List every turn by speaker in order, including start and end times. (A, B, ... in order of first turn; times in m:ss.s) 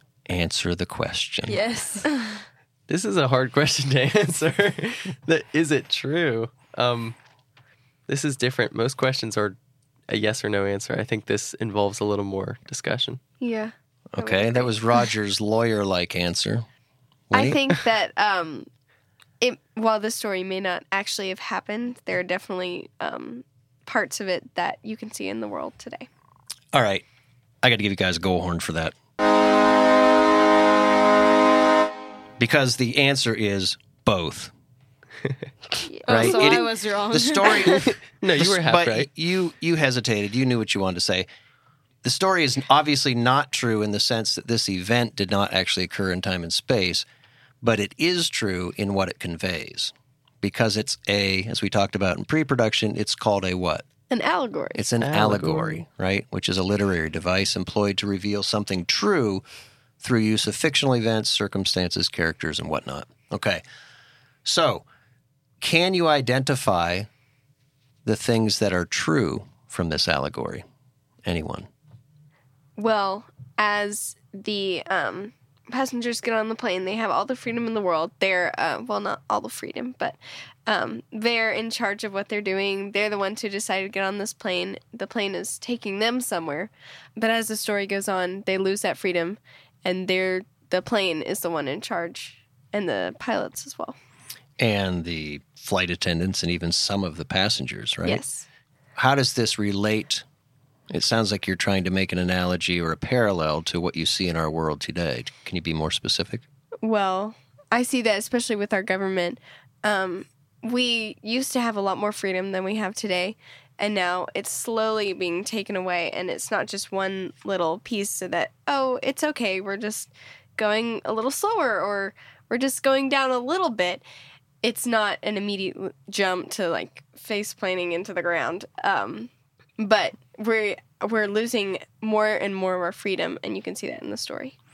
0:00.3-0:01.6 A
0:01.5-0:02.4 B
0:02.9-0:07.2 C
0:08.1-0:09.6 C
0:10.1-0:13.2 C
0:13.4-0:15.0 D
0:14.1-0:16.7 A
0:17.3-0:17.6 A
0:17.3-0:18.7 D
0:19.4-0:26.1 D
0:26.7-0:27.0 A
0:27.6-0:28.9 A
0:32.4-0:34.5 A
0:35.8-0:37.9 B
0:36.1-0:41.3 A
0:37.7-0:39.1 C
0:42.0-0:47.0 A
0:47.6-0:53.8 A
0:54.1-0:54.8 D
0:54.7-0:59.4 A
0:55.0-0:55.8 C
1:00.0-1:03.6 A
1:04.4-1:04.8 A
1:05.6-1:07.1 A
1:08.0-1:10.6 A
1:11.2-1:11.7 A
1:12.8-1:34.0 D
1:34.6-1:38.2 A
1:38.0-1:38.4 D
1:39.0-1:40.2 A
1:40.9-1:46.4 A
1:46.8-2:04.0 D
2:04.6-2:14.5 D